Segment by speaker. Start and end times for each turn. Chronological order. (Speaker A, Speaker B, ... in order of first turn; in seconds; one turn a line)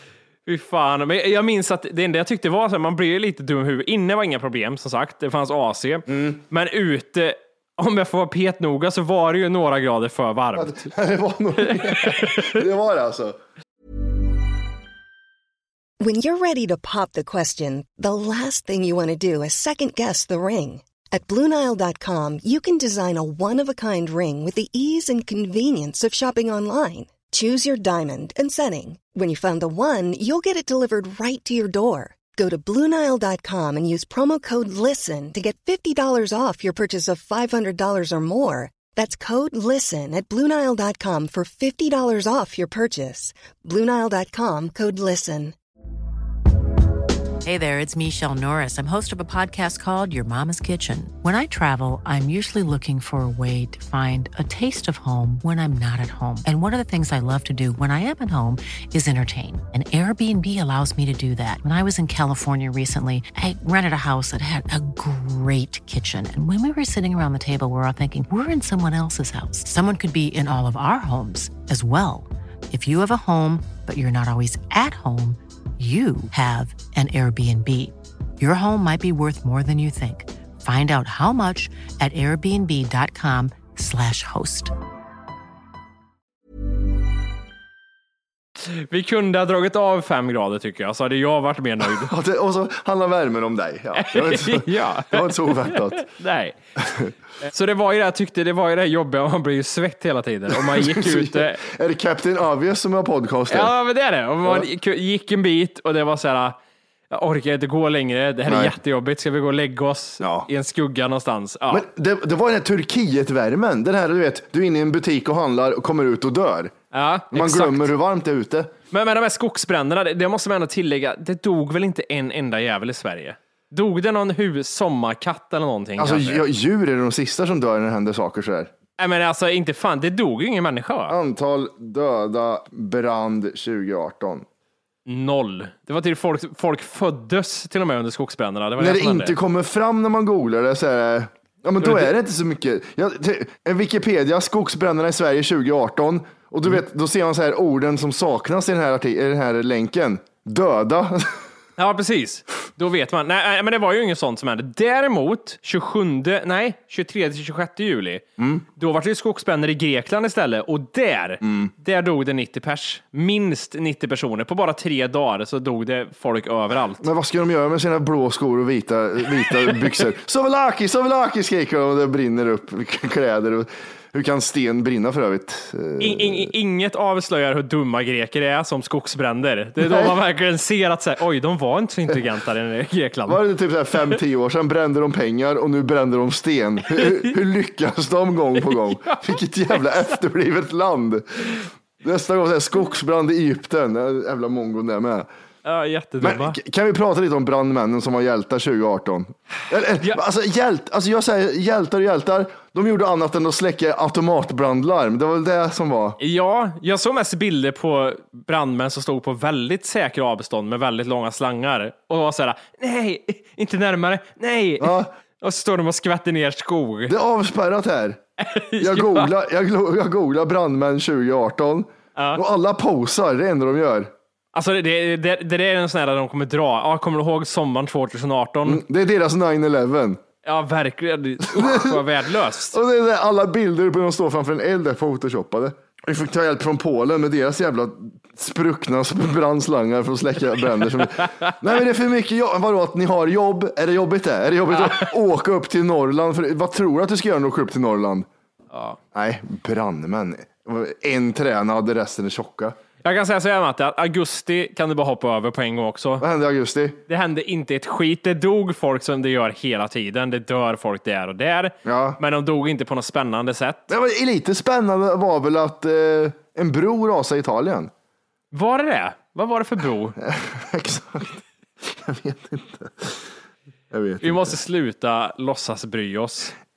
Speaker A: 0.5-10.9
Speaker B: 10.5-13.4
Speaker A: 11.6-12.6
Speaker C: 16.0-45.5
Speaker D: 47.4-84.7
Speaker A: 88.6-92.1
Speaker B: 91.9-96.1
Speaker A: 94.0-96.6
Speaker B: 96.8-97.1
Speaker A: 97.5-101.6
Speaker B: 100.5-103.7
Speaker A: 103.5-106.5
Speaker A: 107.1-111.8
Speaker B: 108.5-108.8
Speaker B: 110.2-110.5
Speaker B: 111.7-116.8
Speaker A: 116.9-117.9
Speaker B: 117.3-118.7
Speaker A: 118.9-126.4
Speaker B: 126.0-128.7
Speaker A: 129.0-131.2
Speaker B: 131.1-134.5
Speaker A: 135.1-139.4
Speaker B: 138.8-151.5
Speaker A: 141.8-142.1
Speaker A: 151.8-158.2
Speaker B: 158.4-158.7
Speaker A: 158.8-167.0
Speaker B: 161.4-161.7
Speaker B: 167.0-176.5
Speaker A: 176.0-183.4
Speaker B: 179.8-180.2
Speaker B: 183.3-195.3
Speaker A: 187.0-187.3
Speaker A: 188.7-189.8
Speaker A: 195.7-196.6
Speaker B: 196.2-206.2
Speaker A: 206.2-217.2
Speaker B: 214.8-215.1
Speaker B: 217.1-218.2
Speaker A: 218.4-219.3
Speaker B: 218.8-224.1
Speaker A: 222.2-222.4
Speaker A: 224.5-228.8
Speaker B: 228.7-230.2
Speaker A: 230.4-232.8
Speaker B: 231.5-232.0
Speaker B: 232.7-248.3
Speaker A: 244.8-245.1
Speaker A: 248.7-249.0
Speaker B: 249.1-252.8
Speaker A: 253.0-256.2
Speaker B: 256.2-257.0
Speaker A: 257.1-263.9
Speaker B: 261.8-262.2
Speaker B: 263.9-267.9
Speaker A: 268.5-270.2
Speaker B: 270.2-273.2
Speaker B: 273.9-274.6
Speaker A: 274.2-276.5